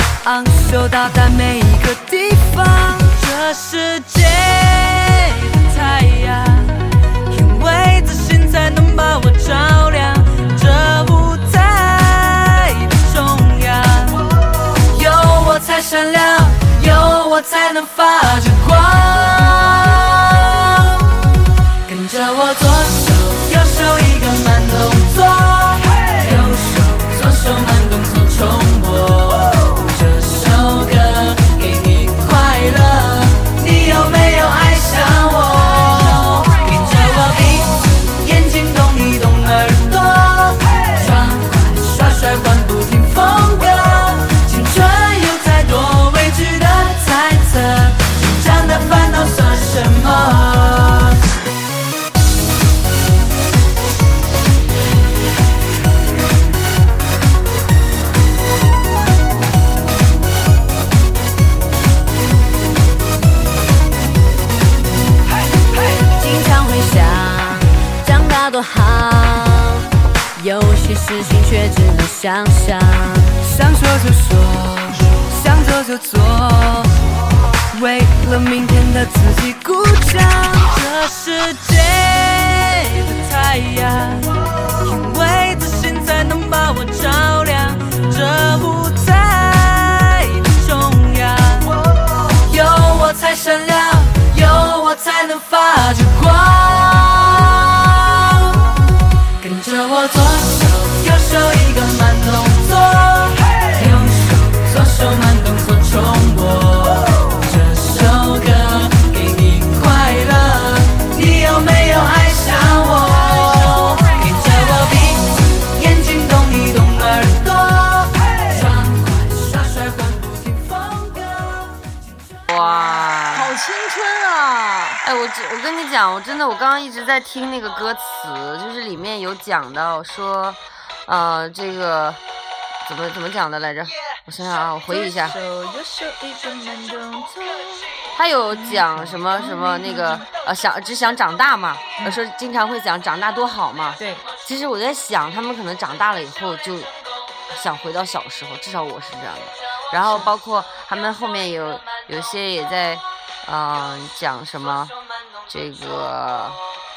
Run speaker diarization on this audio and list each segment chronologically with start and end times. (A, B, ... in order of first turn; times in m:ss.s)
0:00.2-0:14.2 A
0:14.8-0:21.1 A
0:21.8-0:51.2 A
1:06.2-1:09.8 B
1:10.4-1:13.4 B
1:13.4-1:17.0 A
1:17.7-1:24.3 A
1:24.8-1:31.7 A
1:32.4-1:38.6 A
1:39.4-2:02.5 A
2:02.5-2:03.6 C
2:02.5-2:05.0 D
2:05.0-2:12.2 C
2:12.8-2:15.4 C
2:14.9-2:17.8 E
2:18.1-2:26.9 C
2:18.5-2:19.4 E
2:24.0-2:24.2 E
2:27.5-2:35.0 C
2:30.0-2:30.3 E
2:35.5-2:36.6 C